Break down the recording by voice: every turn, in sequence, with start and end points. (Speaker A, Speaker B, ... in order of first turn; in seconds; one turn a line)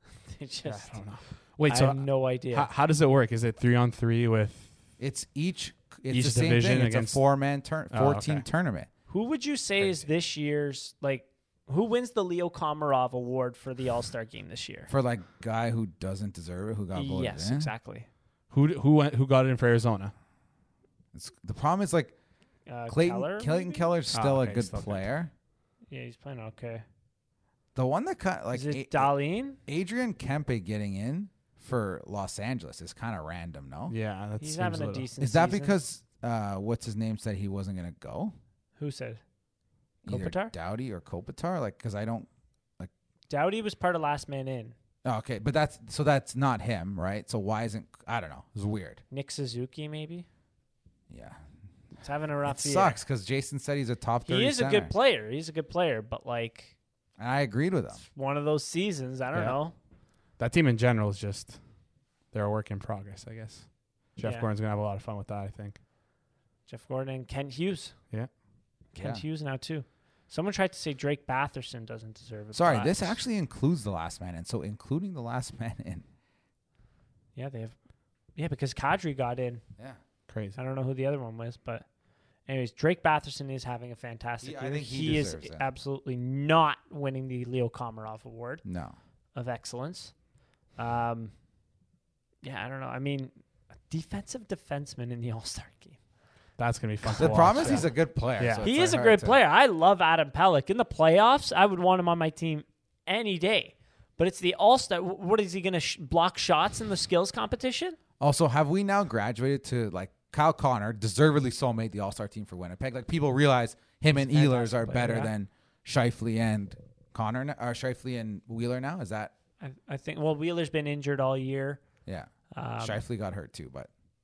Speaker A: 0.3-2.7
Speaker B: 0.7-4.7
Speaker C: 5.0-8.9
Speaker B: 6.1-7.2
Speaker B: 7.9-8.4
Speaker A: 9.1-14.9
Speaker C: 14.9-17.7
Speaker A: 16.9-18.1
Speaker B: 18.5-20.1
Speaker C: 21.1-22.1
Speaker A: 22.7-23.9
Speaker C: 22.9-25.3
Speaker B: 24.1-25.1
Speaker A: 25.9-26.8
Speaker C: 27.8-29.1
Speaker A: 28.5-29.6
Speaker C: 29.7-33.9
Speaker B: 33.9-35.1
Speaker A: 34.4-35.8
Speaker C: 35.2-38.3
Speaker A: 38.8-39.2
Speaker A: 40.1-40.5
Speaker C: 40.1-42.3
Speaker A: 43.3-44.8
Speaker C: 45.0-49.0
Speaker A: 49.1-50.3
Speaker C: 51.1-51.4
Speaker A: 52.0-53.0
Speaker C: 52.5-54.9
Speaker A: 54.3-56.8
Speaker C: 57.2-58.0
Speaker A: 58.0-59.7
Speaker B: 60.4-61.6
Speaker B: 62.3-65.8
Speaker A: 64.2-64.5
Speaker A: 66.7-68.0
Speaker A: 68.9-73.2
Speaker C: 69.0-69.2
Speaker C: 72.5-76.0
Speaker A: 77.4-77.8
Speaker A: 78.4-79.6
Speaker B: 80.3-80.6
Speaker A: 80.6-81.8
Speaker A: 82.5-88.6
Speaker C: 84.4-85.7
Speaker C: 88.7-89.0
Speaker A: 89.3-90.1
Speaker A: 90.8-91.3
Speaker A: 92.4-93.3
Speaker A: 93.9-96.0
Speaker B: 96.6-98.7
Speaker A: 97.0-97.9
Speaker C: 97.2-99.4
Speaker A: 98.6-108.0
Speaker C: 108.2-119.3
Speaker A: 114.2-115.3
Speaker A: 119.6-121.8
Speaker C: 122.1-123.9
Speaker A: 122.5-123.0